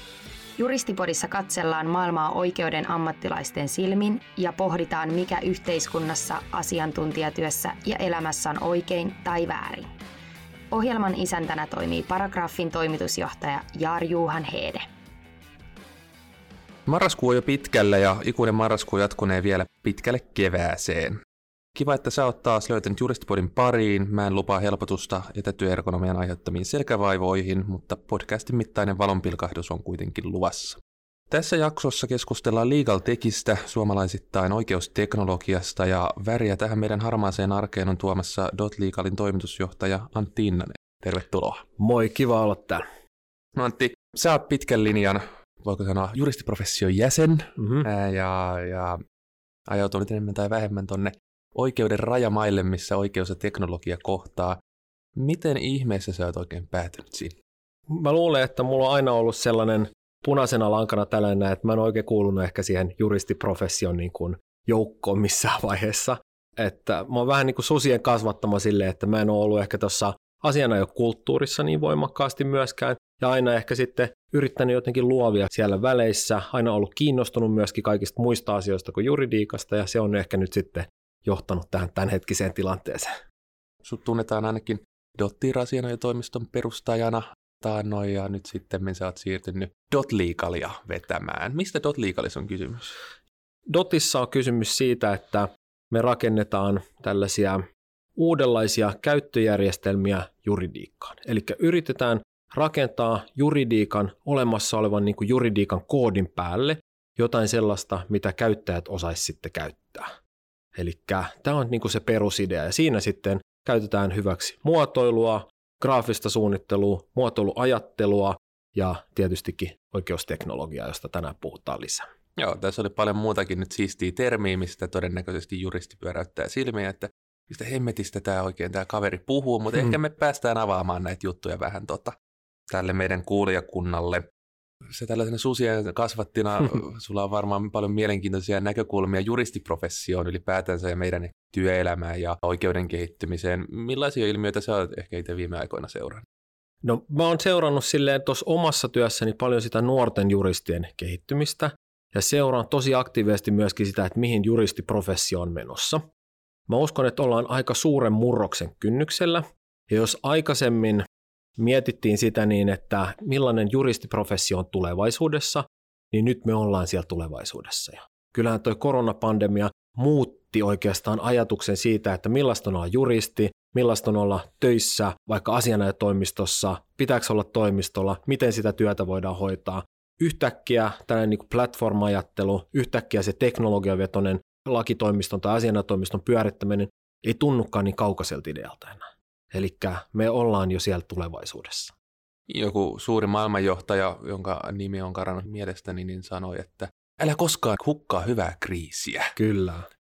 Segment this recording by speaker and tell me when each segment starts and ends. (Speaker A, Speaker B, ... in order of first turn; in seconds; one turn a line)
Speaker A: 0.6-9.9
Speaker A: 10.7-14.9
Speaker B: 16.9-21.2
Speaker B: 21.7-41.6
Speaker C: 41.8-42.8
Speaker B: 43.5-49.0
Speaker C: 47.6-47.9
Speaker B: 49.7-54.6
Speaker B: 55.2-57.4
Speaker C: 57.9-83.1
Speaker B: 83.8-93.0
Speaker C: 93.7-97.6
Speaker C: 98.2-110.2
Speaker C: 110.8-122.1
Speaker B: 122.4-132.2
Speaker B: 132.7-134.3
Speaker B: 134.8-146.3
Speaker C: 146.8-156.0
Speaker C: 156.7-161.1
Speaker C: 161.6-191.9
Speaker B: 192.5-199.4
Speaker C: 199.4-199.9